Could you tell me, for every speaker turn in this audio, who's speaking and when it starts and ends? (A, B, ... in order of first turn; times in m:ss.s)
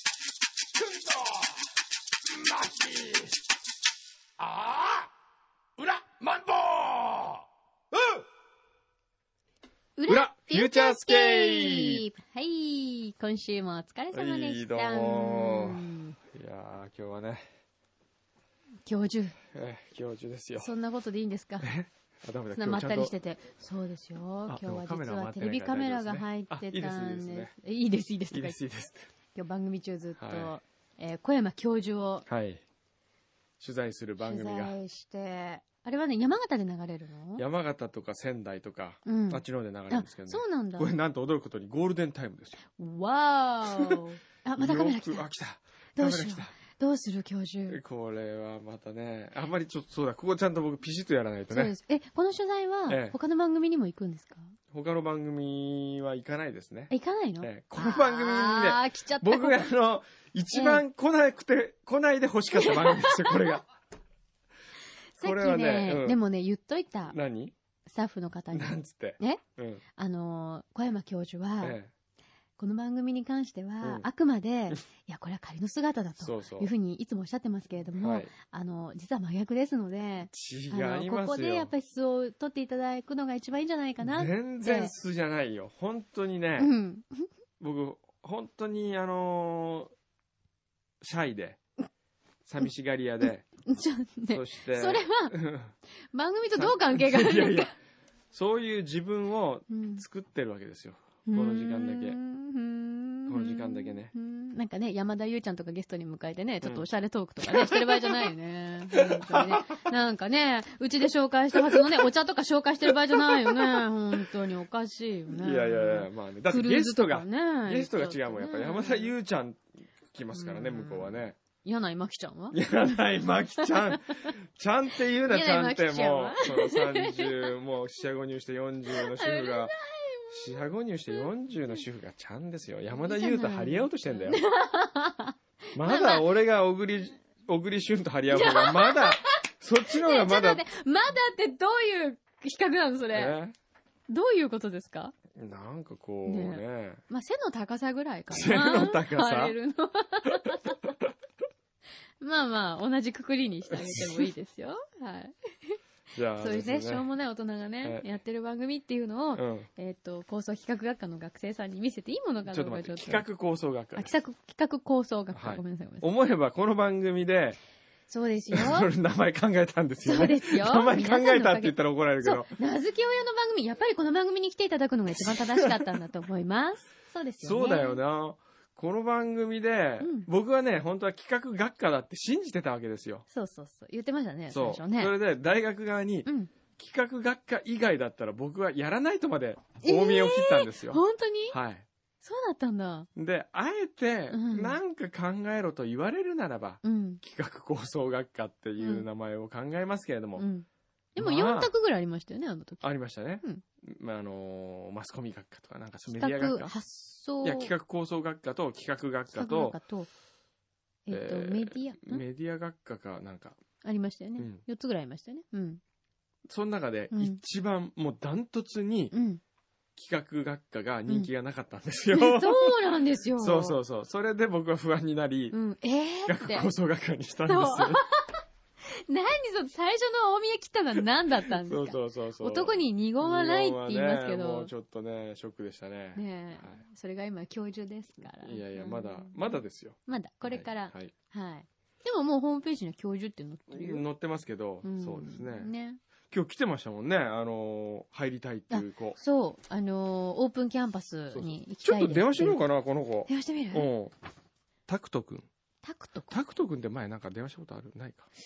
0:02.5-0:03.3 A
0:04.4-0:05.0 A
0:05.8-0:07.3 A
0:10.0-0:16.2 B
0:10.1-0:12.0 C
0:14.1-0:17.4 C
0:18.8-0:19.4 B
0:19.5-0:20.7 C
0:20.6-0:21.7 B
0:21.6-0:23.1 C
0:22.5-0:28.6 B
0:24.5-0:27.5 C
0:28.3-0:29.1 C
0:29.3-0:32.3 B
0:30.2-0:30.5 C
0:32.3-0:32.6 C
0:33.6-0:34.7 C
0:34.2-0:37.4 B
0:37.4-0:42.6 C
0:39.0-0:40.9 B
0:42.8-0:45.2 B
0:44.6-0:46.5 C
0:46.0-0:47.8 B
0:47.7-0:51.7 C
0:51.5-0:54.6 B
0:52.9-0:53.2 C
0:54.7-1:03.6 C
0:56.9-0:59.7 B
1:00.5-1:00.8 B
1:02.6-1:03.5 B
1:05.2-1:07.1 B
1:05.2-1:06.2 C
1:07.1-1:07.5 C
1:07.9-1:09.4 B
1:08.5-1:09.8 C
1:10.0-1:11.8 B
1:11.6-1:11.9 C
1:12.6-1:24.9 B
1:13.8-1:14.1 C
1:16.2-1:16.7 C
1:18.0-1:18.3 C
1:20.3-1:21.7 C
1:24.0-1:26.7 C
1:26.6-1:27.3 B
1:27.6-1:29.9 C
1:31.0-1:31.6 C
1:32.4-1:33.5 C
1:33.6-1:35.4 B
1:34.3-1:35.7 C
1:36.1-1:37.7 B
1:36.5-1:37.7 C
1:38.3-1:42.2 C
1:39.7-1:40.0 B
1:41.3-1:59.1 B
1:43.3-1:44.1 C
1:47.4-1:48.3 C
1:49.0-1:49.6 C
1:51.5-1:52.1 C
1:53.1-1:53.8 C
1:55.3-2:01.4 C
2:00.3-2:02.6 B
2:02.5-2:09.7 C
2:03.6-2:04.3 B
2:05.2-2:07.5 B
2:08.9-2:11.2 B
2:10.3-2:14.4 C
2:13.0-2:16.3 B
2:15.7-2:20.6 C
2:18.3-2:23.4 B
2:23.1-2:23.5 C
2:24.1-2:25.1 B
2:25.3-2:27.0 C
2:26.2-2:30.9 B
2:28.3-2:29.6 C
2:30.2-2:31.0 C
2:32.2-2:35.8 B
2:33.7-2:34.3 C
2:36.1-2:37.1 C
2:36.4-2:43.2 B
2:39.4-2:39.7 C
2:42.5-2:44.1 C
2:43.9-2:46.1 B
2:45.3-2:47.6 C
2:48.1-2:48.9 B
2:48.5-2:52.5 C
2:50.0-2:58.0 B
2:57.4-3:03.2 C
3:00.0-3:00.3 B
3:03.3-3:05.1 B
3:04.5-3:11.8 C
3:06.2-3:06.5 B
3:09.8-3:11.6 B
3:12.2-3:13.1 B
3:13.2-3:20.5 C
3:14.3-3:14.8 B
3:16.8-3:17.2 B
3:18.8-3:19.0 B
3:20.4-3:22.8 B
3:21.2-3:21.7 C
3:22.8-3:26.7 C
3:26.1-3:27.7 B
3:27.4-3:29.8 C
3:29.3-3:30.1 B
3:31.1-3:32.2 B
3:31.1-3:33.6 C
3:33.8-3:35.8 B
3:36.5-3:39.1 C
3:37.1-3:37.4 B
3:39.1-3:39.4 B
3:40.0-3:42.8 C
3:42.1-3:43.8 B
3:43.4-3:45.6 C
3:45.5-3:46.7 B
3:46.2-3:48.0 C
3:47.5-3:54.7 B
3:51.6-3:56.8 C
3:56.1-4:04.0 B
3:58.4-4:01.1 C
4:03.7-4:05.7 C
4:04.8-4:06.0 B
4:06.3-4:09.2 C
4:08.7-4:12.6 B
4:11.3-4:14.1 C
4:13.3-4:13.9 B
4:14.9-4:15.5 C
4:15.8-4:16.4 B
4:16.3-4:18.3 C